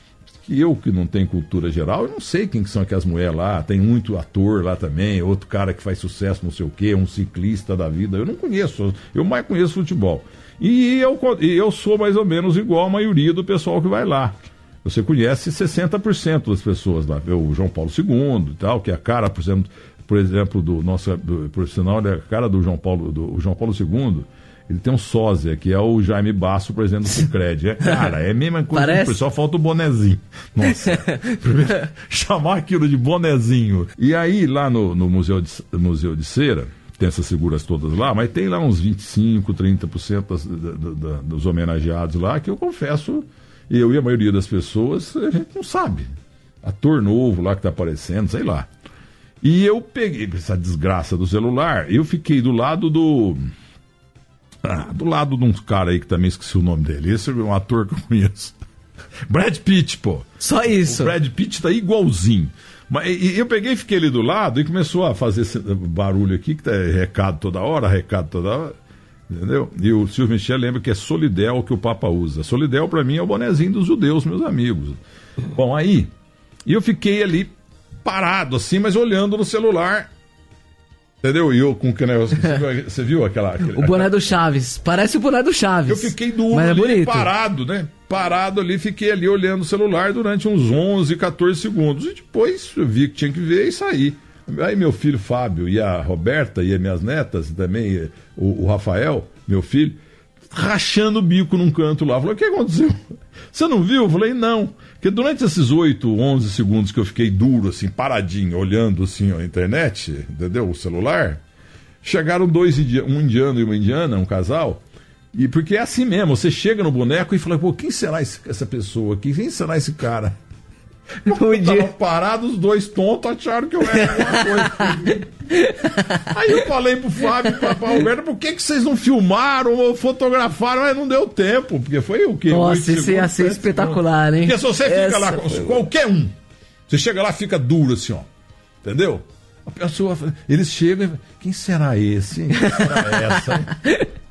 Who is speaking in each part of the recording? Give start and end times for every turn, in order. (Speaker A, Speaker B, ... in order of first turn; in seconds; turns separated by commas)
Speaker A: 0.4-46.1, Speaker B: 28.7-29.2, Speaker A: 46.6-48.7, Speaker A: 49.4-53.5, Speaker A: 54.6-58.5, Speaker A: 59.3-68.7, Speaker B: 60.4-61.1, Speaker A: 69.3-75.0, Speaker A: 75.5-76.1, Speaker A: 76.6-80.1, Speaker A: 81.2-84.1, Speaker B: 83.6-87.3, Speaker A: 85.9-100.0, Speaker A: 100.5-103.0, Speaker A: 103.5-111.4, Speaker A: 112.0-114.8, Speaker A: 115.3-120.3, Speaker B: 121.2-121.9, Speaker A: 121.2-125.3, Speaker B: 123.9-124.9, Speaker B: 125.5-126.2, Speaker A: 126.0-136.3, Speaker B: 132.5-135.8, Speaker A: 136.9-138.3, Speaker A: 138.8-143.8, Speaker B: 142.7-144.0